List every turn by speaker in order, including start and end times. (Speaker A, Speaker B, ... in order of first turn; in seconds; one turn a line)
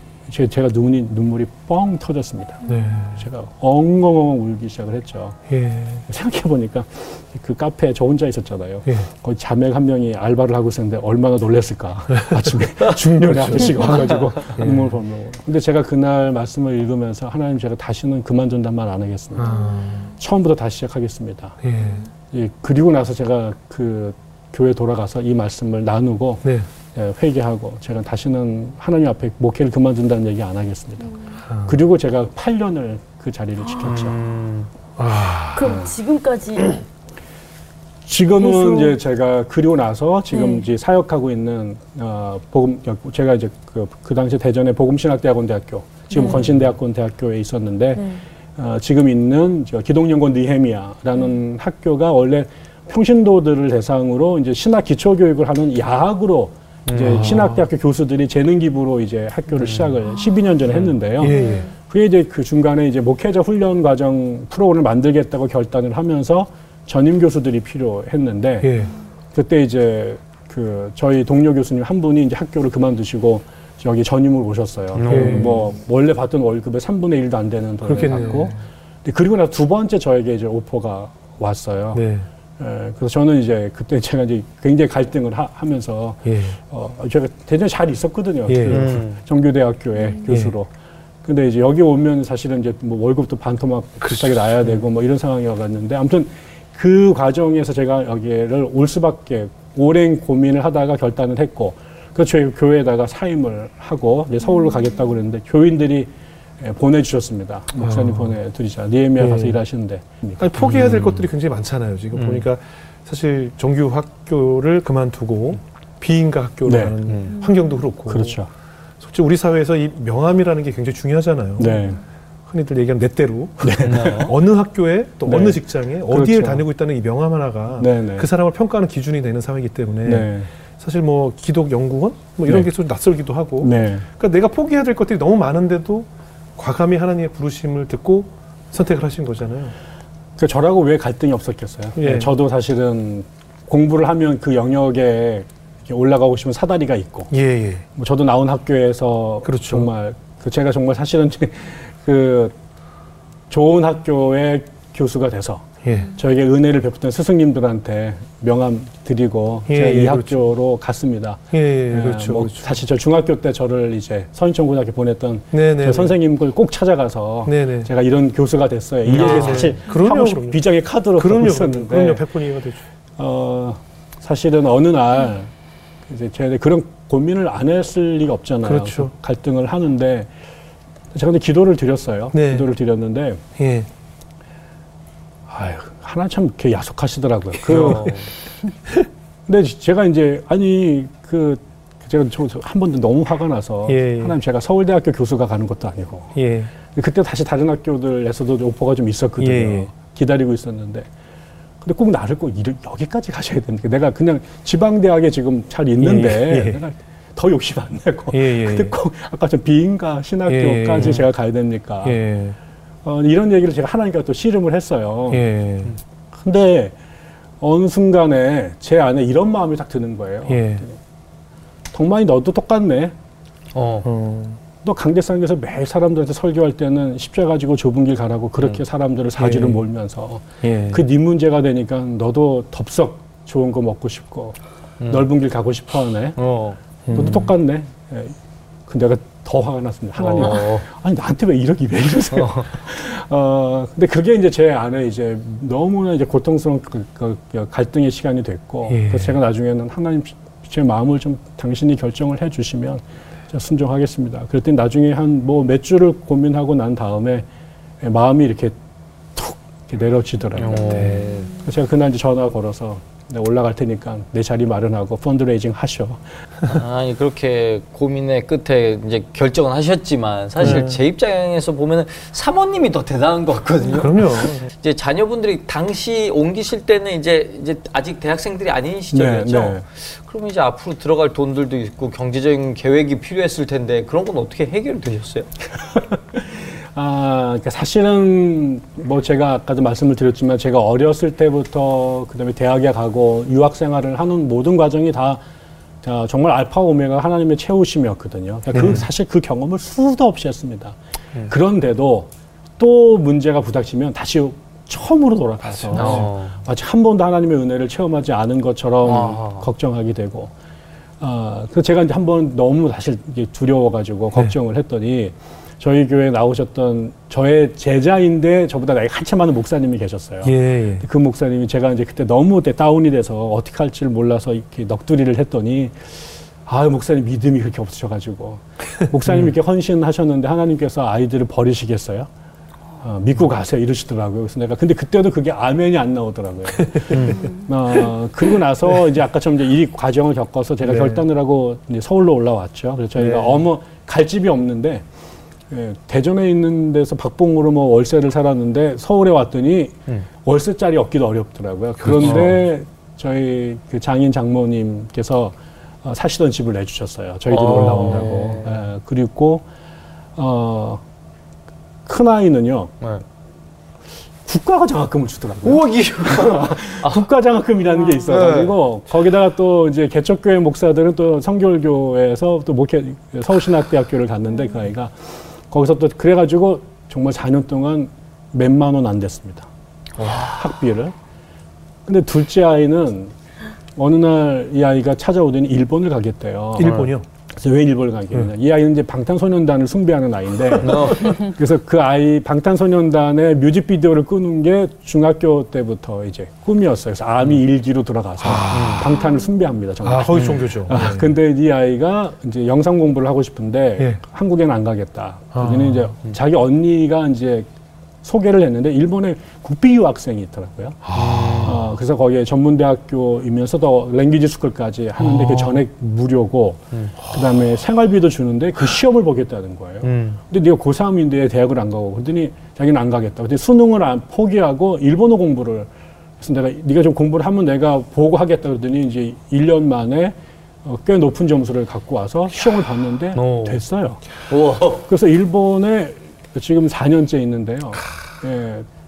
Speaker A: 0.3-2.6
Speaker B: 2.6-3.2
Speaker A: 3.1-5.4
Speaker B: 5.5-6.0
Speaker A: 6.1-21.6
Speaker B: 12.2-14.9
Speaker B: 19.3-20.1
Speaker C: 19.6-20.0
Speaker B: 21.6-22.0
Speaker C: 21.8-22.1
Speaker A: 22.3-34.1
Speaker B: 31.5-31.8
Speaker D: 33.8-34.7
Speaker B: 35.0-35.8
Speaker C: 35.5-36.8
Speaker A: 35.6-35.9
Speaker A: 38.0-48.0
Speaker C: 38.4-38.9
Speaker C: 40.3-40.6
Speaker C: 46.1-46.4
Speaker D: 46.2-46.6
Speaker C: 47.9-48.2
Speaker A: 48.6-68.7
Speaker D: 56.9-57.3
Speaker B: 57.0-57.6
Speaker D: 59.6-59.9
Speaker B: 61.2-61.7
Speaker C: 61.2-61.7
Speaker B: 68.6-68.9
Speaker A: 69.3-82.0
Speaker D: 74.9-75.7
Speaker B: 75.1-75.6
Speaker B: 77.8-78.6
Speaker B: 81.9-82.3
Speaker A: 82.6-90.7
Speaker B: 86.2-86.6
Speaker B: 88.5-88.9
Speaker D: 88.7-89.2
Speaker B: 90.3-90.5
Speaker A: 91.2-111.2
Speaker B: 94.0-94.8
Speaker B: 107.8-108.3
Speaker B: 109.2-109.6
Speaker B: 110.4-118.4
Speaker D: 112.1-112.4
Speaker A: 116.6-117.0
Speaker D: 117.0-117.4
Speaker A: 118.1-118.5
Speaker B: 119.0-121.8
Speaker A: 121.6-122.0
Speaker B: 122.5-139.7
Speaker A: 123.6-124.3
Speaker D: 123.8-124.3
Speaker A: 125.2-126.6
Speaker A: 127.8-128.3
Speaker A: 130.0-130.5
Speaker A: 133.6-134.1
Speaker A: 140.4-147.3
Speaker B: 141.9-142.3
Speaker B: 147.3-147.8
Speaker A: 147.9-152.5
Speaker B: 149.4-149.9
Speaker A: 153.5-172.2
Speaker B: 155.8-156.1
Speaker B: 159.7-160.5
Speaker B: 161.5-162.8
Speaker B: 165.5-166.2
Speaker B: 167.4-167.9
Speaker D: 169.1-169.8
Speaker B: 169.1-170.6
Speaker B: 171.2-172.8
Speaker A: 173.2-175.5
Speaker A: 176.1-180.3
Speaker B: 178.6-179.1
Speaker A: 181.1-183.4
Speaker B: 182.3-182.7
Speaker B: 183.6-183.9
Speaker A: 185.5-188.2
Speaker B: 187.6-188.3
Speaker D: 187.7-188.3
Speaker A: 189.5-196.3
Speaker B: 193.9-194.3
Speaker B: 196.3-196.7
Speaker A: 196.9-201.1
Speaker B: 199.4-199.9
Speaker A: 201.8-212.2
Speaker B: 206.0-206.8
Speaker B: 208.3-208.9
Speaker B: 210.5-211.3
Speaker B: 212.0-212.6
Speaker A: 213.0-215.4
Speaker B: 215.3-215.9
Speaker A: 216.3-216.9
Speaker A: 217.6-221.0
Speaker B: 220.5-220.8
Speaker A: 221.9-223.1
Speaker D: 223.7-224.1
Speaker B: 224.0-224.6
Speaker A: 224.8-234.6
Speaker B: 229.4-229.8
Speaker B: 230.6-231.0
Speaker D: 235.0-235.2
Speaker A: 235.1-236.4
Speaker D: 236.4-237.3
Speaker B: 237.1-237.5
Speaker A: 237.1-238.3
Speaker A: 238.9-257.4
Speaker D: 240.2-240.8
Speaker D: 242.3-242.7
Speaker B: 248.9-249.4
Speaker A: 258.0-258.8
Speaker A: 259.3-266.2
Speaker D: 260.6-261.5
Speaker B: 260.9-261.3
Speaker D: 266.7-285.5
Speaker B: 270.6-271.0
Speaker B: 273.9-274.7
Speaker A: 279.1-279.8
Speaker A: 286.0-295.4
Speaker A: 296.0-300.9
Speaker B: 298.7-299.0
Speaker A: 301.5-310.5
Speaker B: 305.7-306.3
Speaker D: 305.9-306.6
Speaker D: 309.0-309.7
Speaker A: 311.2-332.3
Speaker B: 320.4-321.0
Speaker A: 333.0-345.0
Speaker B: 336.9-337.4
Speaker D: 337.1-337.4
Speaker C: 337.3-337.6
Speaker B: 340.8-341.2
Speaker B: 343.1-343.6
Speaker A: 345.7-359.6
Speaker B: 352.0-352.6
Speaker D: 352.2-352.5
Speaker D: 357.5-358.8
Speaker B: 357.8-358.3
Speaker A: 360.4-361.0
Speaker A: 362.1-362.9
Speaker A: 364.5-379.7
Speaker D: 365.6-367.2
Speaker D: 368.3-368.7
Speaker D: 380.2-380.6
Speaker A: 380.2-381.1
Speaker A: 382.1-383.3
Speaker A: 383.9-386.9
Speaker B: 386.8-387.2
Speaker D: 386.8-387.1
Speaker A: 387.6-407.7
Speaker D: 390.8-391.5
Speaker B: 398.4-399.0
Speaker D: 398.7-399.1
Speaker B: 400.0-401.3
Speaker B: 405.5-406.1
Speaker A: 408.2-411.1
Speaker B: 411.0-411.8
Speaker D: 411.1-411.8
Speaker A: 411.6-425.9
Speaker B: 415.2-415.8
Speaker D: 420.0-420.4
Speaker A: 426.4-434.2
Speaker D: 433.3-433.8
Speaker D: 434.5-435.1
Speaker A: 435.0-438.9